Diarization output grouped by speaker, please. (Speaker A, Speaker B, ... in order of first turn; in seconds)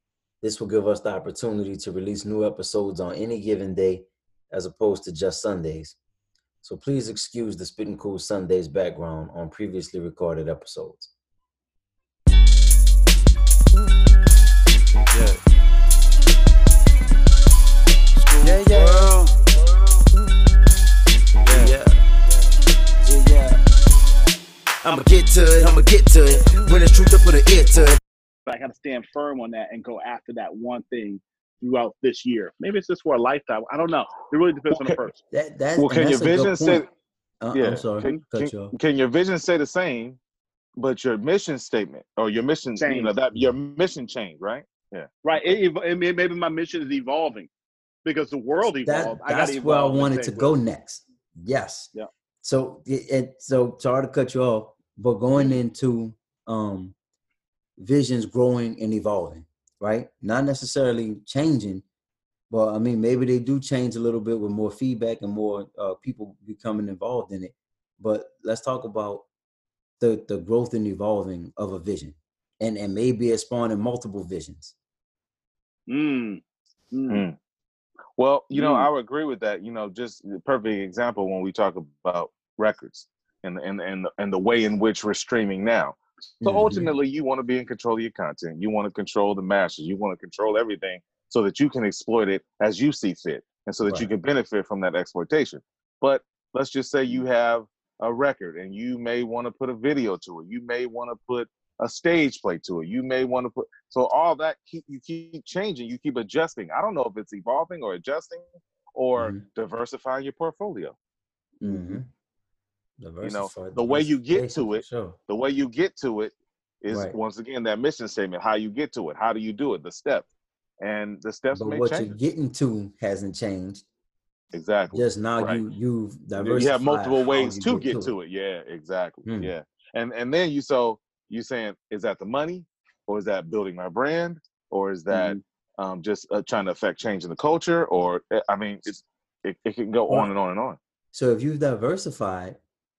Speaker A: 0.4-6.0, 6.6-11.1, 18.4-19.1, 21.5-21.8, 35.3-36.8, 37.4-38.7, 48.8-57.0, 57.8-61.8, 62.5-69.3, 70.0-74.8, 86.4-86.9, 109.2-109.5, 111.6-112.0, 113.0-115.2, 116.9-117.2, 121.5-123.9, 124.9-128.2, 129.2-129.5, 141.1-142.6
Speaker B: 15.1-15.4, 18.2-19.3, 21.4-21.9, 23.1-23.5, 24.8-28.0
Speaker C: 28.4-35.2, 42.8-43.1, 45.2-47.5, 48.0-50.6, 75.9-77.2, 78.5-78.9, 111.7-112.0, 135.1-135.4
Speaker D: 34.7-35.0, 35.8-36.9, 37.5-40.2, 40.8-45.5, 77.1-77.3, 78.2-111.0, 113.2-120.3, 120.8-122.1, 124.5-125.6, 126.4-140.8